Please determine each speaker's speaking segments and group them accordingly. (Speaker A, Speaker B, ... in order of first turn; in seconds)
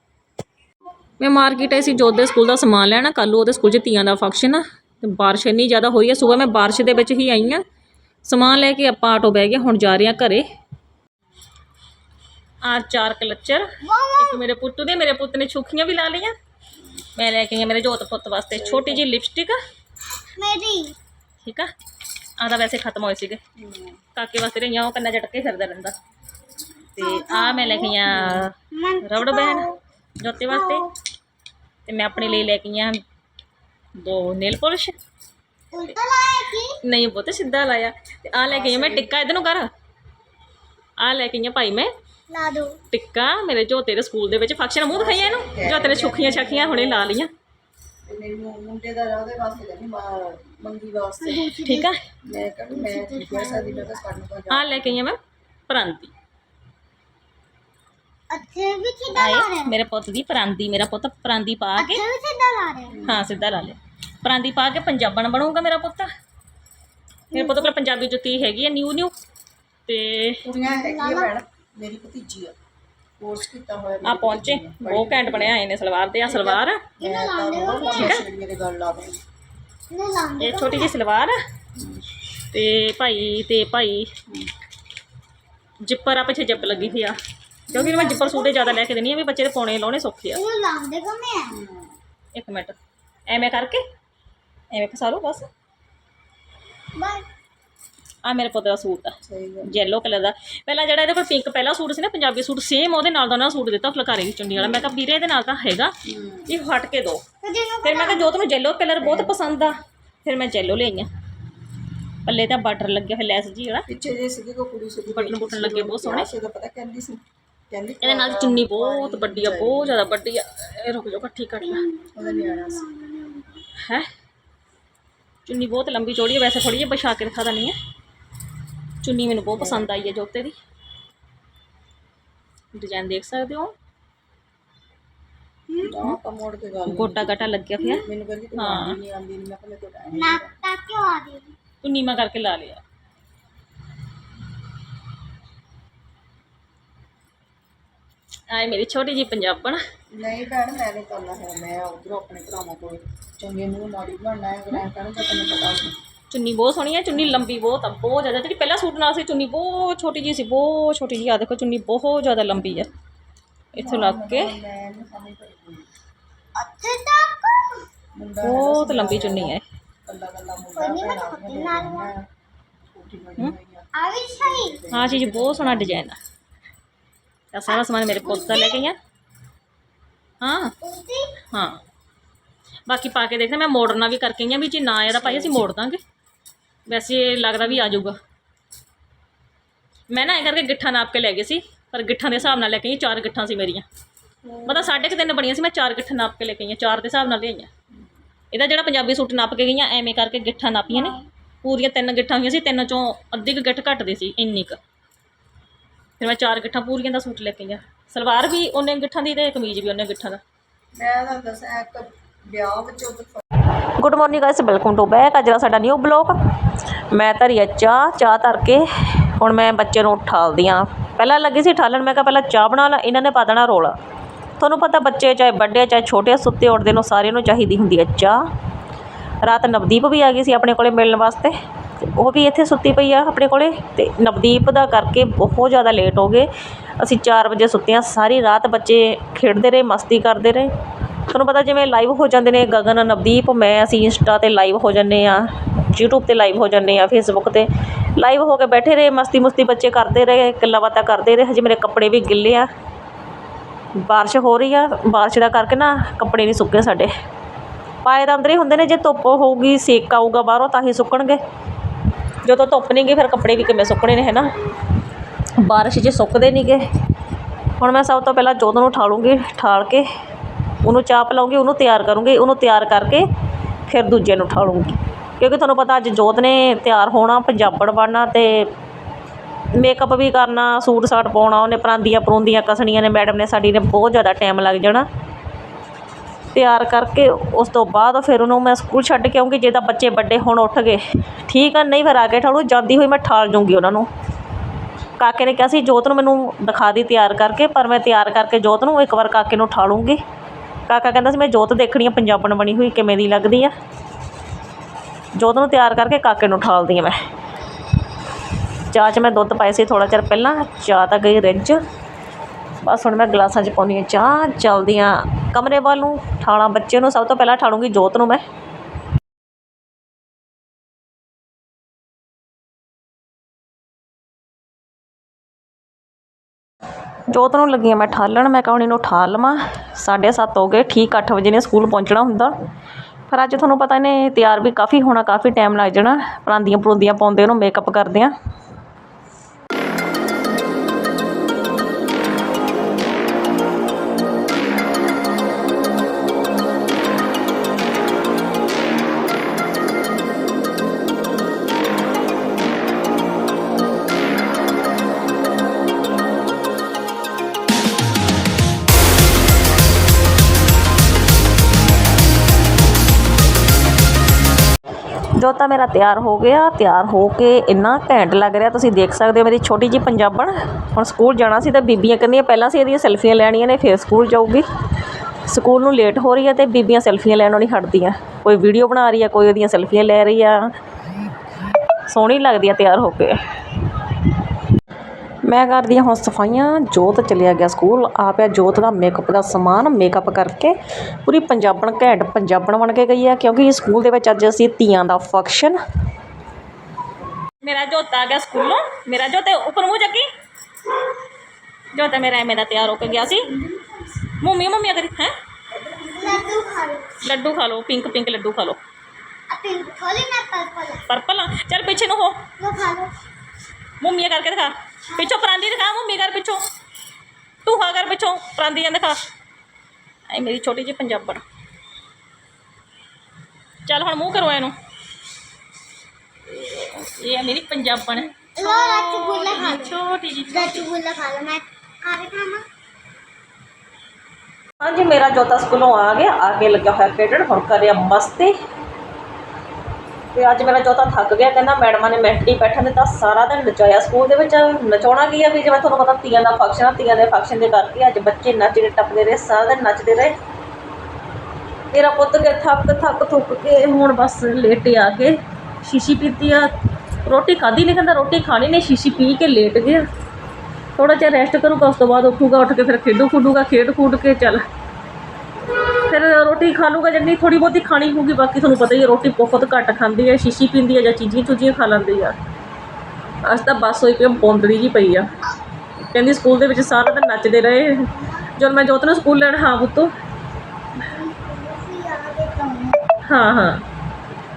Speaker A: 1.2-7.6, 8.2-10.4, 12.6-16.3, 17.1-19.6, 21.4-21.7, 22.4-23.4, 24.1-25.9, 27.0-30.9, 31.9-33.0, 34.0-35.0, 36.8-39.7, 41.0-41.9, 42.9-47.3, 51.6-52.0, 54.5-56.1, 59.1-62.0, 63.0-66.1, 67.3-69.1, 69.9-70.4, 74.0-76.8, 77.9-78.2, 80.4-81.4, 82.5-84.1, 85.8-87.2, 87.7-90.4, 92.3-93.8, 94.7-95.5, 98.2-105.9, 106.5-107.2, 107.8-111.1, 112.2-113.8, 115.1-116.3, 118.0-121.9, 123.8-124.1, 125.5-127.8, 129.0-130.6, 132.7-133.7, 136.8-139.0, 141.8-142.8, 148.5-149.8, 156.3-162.9, 163.7-164.6, 168.4-169.6, 174.9-176.2, 177.5-179.0, 180.4-180.7, 181.5-181.8, 182.9-186.0, 186.9-188.2, 190.1-193.8, 194.6-197.7, 198.5-204.8, 206.2-210.4, 214.0-216.3, 217.1-223.9, 224.6-228.4, 229.4-240.7, 241.2-252.7, 254.0-257.1, 258.0-261.4, 262.4-264.5, 265.6-266.9, 267.8-270.1, 270.8-273.3, 273.9-278.7, 279.8-285.1, 286.5-294.1, 295.2-300.2, 300.9-303.7, 305.3-307.2, 308.9-311.8, 312.8-318.4, 327.3-332.5, 333.3-338.3, 365.3-374.6, 375.5-380.7, 382.1-383.4, 385.4-395.8, 397.6-400.3, 401.9-403.6, 404.3-405.3, 407.2-408.8, 411.1-412.5, 414.0-416.6, 417.6-419.2, 420.3-421.4, 423.9-424.7, 426.5-430.9, 434.8-438.5, 440.3-450.4, 451.9-456.7, 457.2-460.0, 460.9-464.6, 466.0-472.4, 473.4-475.3, 476.1-480.1, 483.2-483.8
Speaker B: 13.8-14.4, 20.2-20.9, 27.0-28.1, 28.7-29.8, 30.5-30.9, 32.1-32.5, 35.7-36.8, 42.3-42.8, 51.2-51.9, 52.7-54.0, 58.3-59.7, 61.8-63.0, 70.7-71.3, 77.0-78.2, 79.9-80.9, 87.7-88.8, 90.3-91.5, 96.9-97.3, 107.4-108.3, 121.6-123.6, 135.7-136.1, 137.8-138.1, 140.1-141.5, 166.5-167.8, 170.7-172.1, 173.9-174.8, 177.9-178.8, 180.8-181.4, 403.3-403.9, 406.1-407.2, 409.5-411.1, 412.6-413.1, 428.5-430.0, 430.5-432.6, 478.1-478.5, 481.0-483.1
Speaker C: 18.5-19.1, 23.6-24.0, 38.5-39.1, 44.9-47.1, 48.0-51.5, 52.2-55.0, 62.9-63.3, 70.4-72.5, 73.2-75.6, 76.3-79.2, 81.8-82.0, 86.6-87.0, 91.5-91.9, 99.2-99.8, 106.0-106.5, 109.0-109.4, 113.9-120.0, 122.1-122.9, 129.5-129.9, 135.8-137.5, 138.0-140.6, 150.1-156.0, 163.8-165.9, 168.1-172.2, 172.9-175.9, 185.2-185.6, 187.6-188.0, 194.4-195.3, 210.9-213.4